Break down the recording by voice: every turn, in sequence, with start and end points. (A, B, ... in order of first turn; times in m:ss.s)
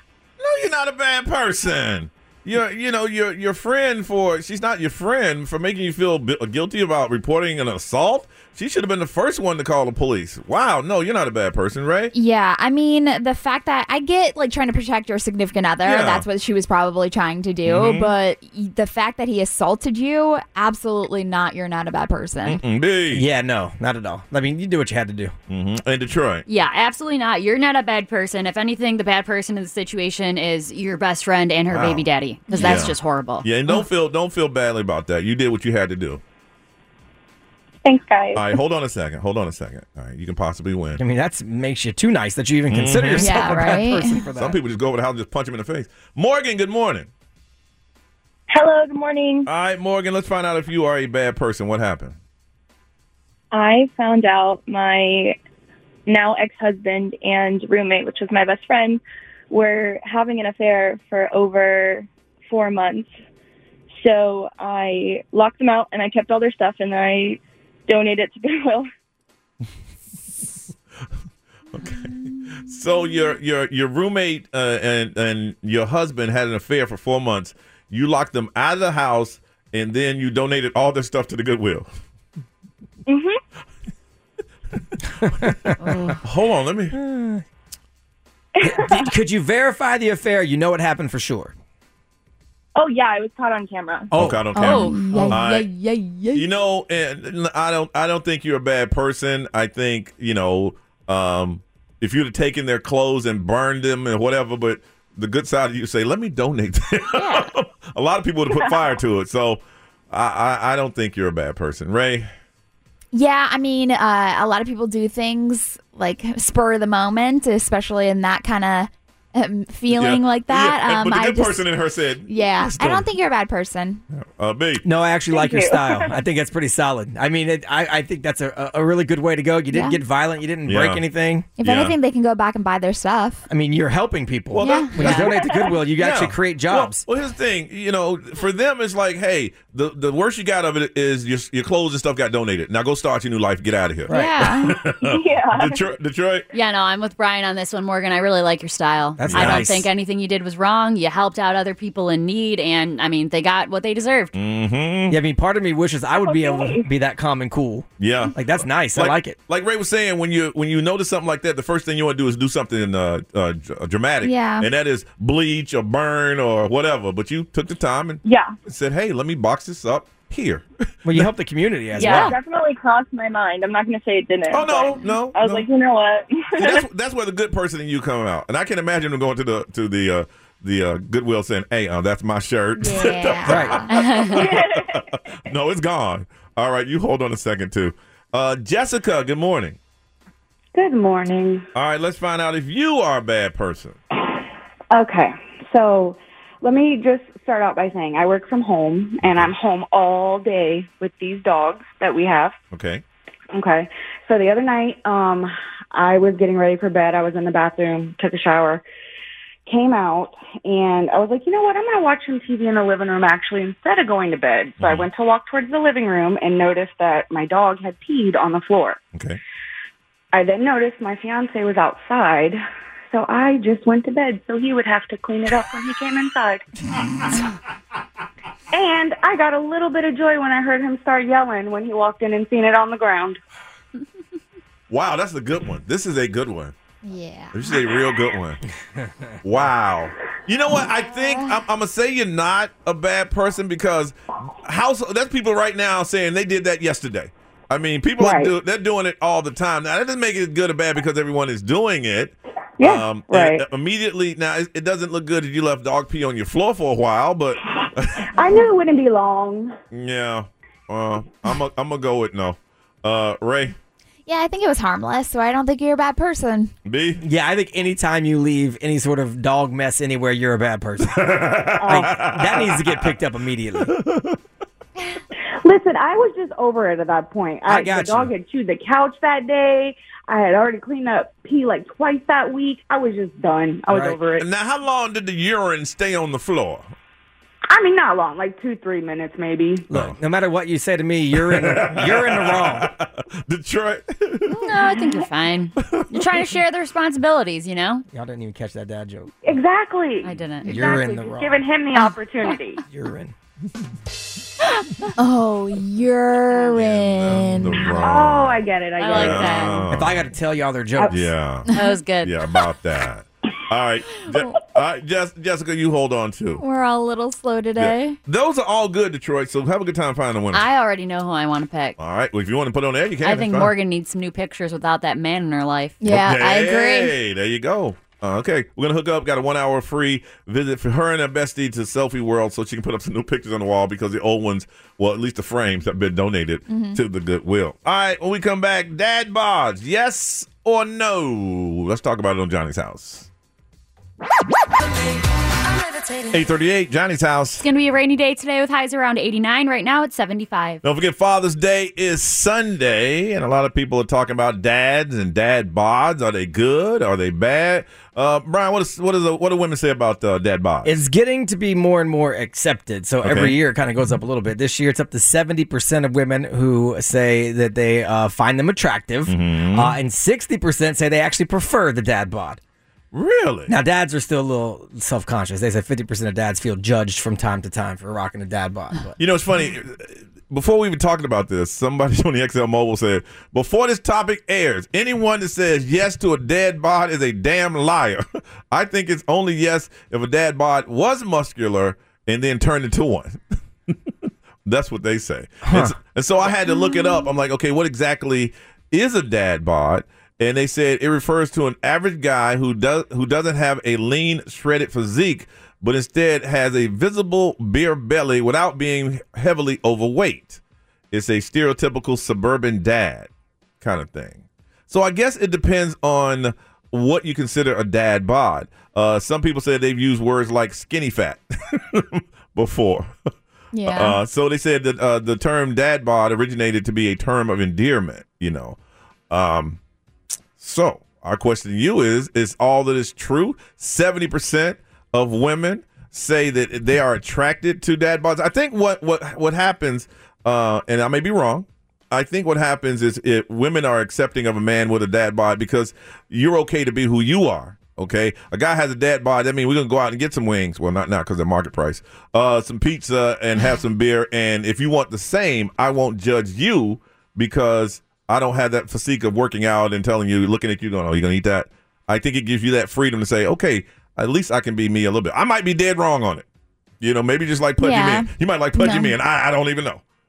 0:00.4-0:12.1 A
0:12.1-0:22.6 B
0:15.8-0:16.2 A
0:17.6-0:18.1 A
0:22.4-0:23.3 A
0:23.1-0:25.4 C
0:25.5-0:26.4 A
0:26.5-0:33.4 D
0:31.7-0:32.1 A
0:32.5-0:32.9 B
0:32.6-0:36.2 A
0:37.8-0:38.5 E
0:38.4-0:41.0 A
0:41.0-0:44.6 C
0:42.7-0:43.8 A
0:43.2-0:44.2 B
0:44.4-0:47.1 A
0:48.5-0:49.5 E
0:49.4-0:52.2 A
0:53.5-0:55.4 E
0:56.1-1:03.1 E
1:03.9-1:08.9 E
1:11.8-1:12.1 A
1:12.6-1:21.9 A
1:23.1-1:23.4 E
1:25.2-1:26.1 C
1:26.2-1:27.0 A
1:26.9-1:27.4 C
1:28.6-1:29.1 E
1:28.6-1:31.5 C
1:32.8-1:34.1 E
1:34.1-1:35.4 C
1:34.2-1:35.7 A
1:34.6-1:36.5 B
1:36.3-1:52.3 A
1:53.1-2:01.7 B
1:59.9-2:03.1 A
2:02.3-2:04.0 B
2:04.1-2:04.8 A
2:04.8-2:11.5 C
2:05.3-2:06.1 E
2:09.7-2:10.0 B
2:10.7-2:11.0 A
2:11.6-2:13.4 B
2:11.6-2:12.0 A
2:13.5-2:17.0 C
2:14.5-2:15.4 A
2:14.6-2:15.3 B
2:15.2-2:15.7 E
2:16.0-2:26.5 A
2:24.1-2:24.4 C
2:24.1-2:24.8 B
2:25.0-2:25.8 E
2:26.5-2:34.3 D
2:29.2-2:29.9 C
2:29.3-2:29.7 A
2:34.4-2:35.2 A
2:35.1-2:39.4 C
2:36.2-2:36.8 E
2:38.0-2:38.4 A
2:38.9-2:50.6 A
2:44.2-2:44.7 B
2:48.2-2:48.6 E
2:51.0-2:52.4 C
2:52.0-2:56.8 E
2:54.5-2:55.7 A
2:56.6-3:09.8 A
3:02.8-3:03.9 B
3:03.5-3:03.8 C
3:03.9-3:04.6 D
3:10.7-3:11.7 F
3:11.8-3:14.0 A
3:14.9-3:22.6 F
3:19.2-3:19.5 A
3:22.7-3:23.0 A
3:23.5-3:28.8 F
3:29.7-3:39.0 F
3:34.8-3:35.1 A
3:39.1-3:39.4 A
3:40.3-3:42.6 F
3:43.1-3:46.6 F
3:48.7-3:53.4 F
3:54.9-3:56.7 A
3:57.0-3:57.8 B
3:57.5-3:58.6 A
3:59.4-4:18.3 A
4:01.0-4:01.6 B
4:08.2-4:08.5 F
4:12.8-4:13.6 F
4:18.4-4:19.8 F
4:19.9-4:23.8 A
4:24.3-4:26.7 B
4:26.9-4:27.2 A
4:27.2-4:33.9 C
4:31.1-4:33.0 A
4:33.8-4:34.4 A
4:35.6-4:44.4 F
4:37.6-4:38.3 C
4:43.9-4:44.2 C
4:44.4-4:46.9 A
4:47.7-4:49.8 F
4:49.9-4:52.9 C
4:49.9-4:50.2 A
4:51.4-4:54.7 A
4:54.5-4:58.0 D
4:58.1-4:59.3 C
4:59.4-5:02.8 F
5:00.2-5:00.8 D
5:00.6-5:01.6 C
5:02.9-5:03.3 C
5:05.2-5:08.2 B
5:06.7-5:10.3 A
5:08.0-5:09.7 F
5:09.0-5:09.8 D
5:09.9-5:11.2 C
5:11.1-5:11.7 A
5:11.7-5:11.9 B
5:11.7-5:12.4 D
5:12.2-5:16.6 A
5:14.3-5:14.6 B
5:16.6-5:18.2 B
5:17.8-5:20.7 A
5:20.5-5:22.0 D
5:22.0-5:23.7 A
5:23.2-5:26.0 D
5:26.0-5:27.1 B
5:26.0-5:43.3 A
5:36.7-5:37.0 B
5:46.3-5:47.6 A
5:47.6-5:50.8 D
5:50.8-6:01.0 A
6:00.8-6:12.6 C
6:03.2-6:03.6 A
6:09.3-6:10.0 A
6:13.1-6:13.7 A
6:13.7-6:19.2 C
6:19.2-6:33.4 A
6:34.6-6:50.6 A
6:35.6-6:36.0 C
6:36.7-6:37.2 B
6:51.1-6:53.3 A
6:53.8-7:03.1 A
7:03.7-7:04.2 B
7:03.9-7:08.8 A
7:09.3-7:09.8 A
7:10.6-7:46.5 A
7:47.0-7:50.0 A
7:47.8-7:49.1 B